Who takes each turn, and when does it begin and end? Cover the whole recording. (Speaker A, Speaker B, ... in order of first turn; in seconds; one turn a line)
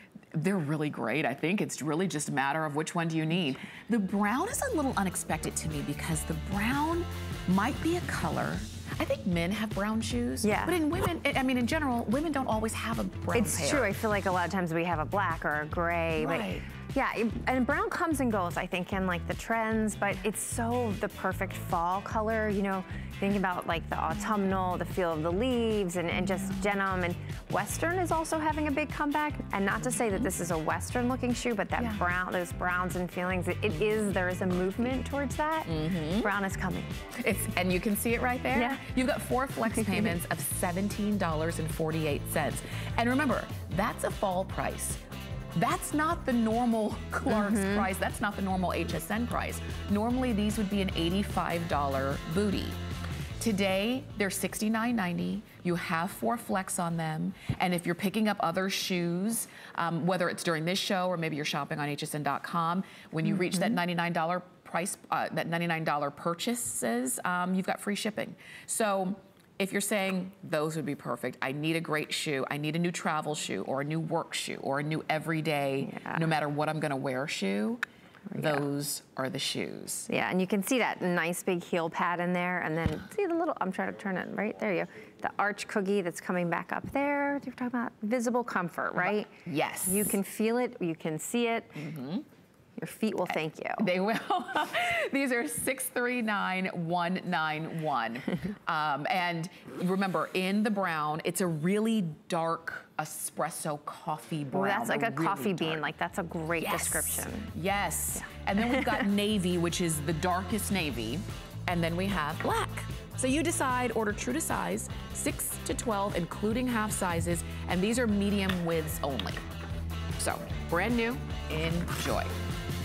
Speaker A: 0.3-13.9
Speaker B: 10.4-10.8
Speaker B: 13.3-36.9
Speaker A: 16.2-16.7
Speaker A: 35.7-36.3
Speaker A: 37.1-45.0
Speaker B: 38.5-38.8
Speaker B: 39.7-40.1
Speaker A: 45.5-52.8
Speaker B: 47.3-47.9
Speaker A: 53.4-77.8
Speaker B: 75.8-76.2
Speaker B: 78.3-78.6
Speaker A: 78.3-80.1
Speaker B: 80.1-89.3
Speaker A: 89.0-90.2
Speaker B: 89.8-91.8
Speaker A: 91.7-92.2
Speaker B: 92.8-93.9
Speaker A: 93.8-105.8
Speaker B: 104.5-107.5
Speaker A: 106.6-119.4
Speaker B: 108.6-109.0
Speaker A: 120.2-122.3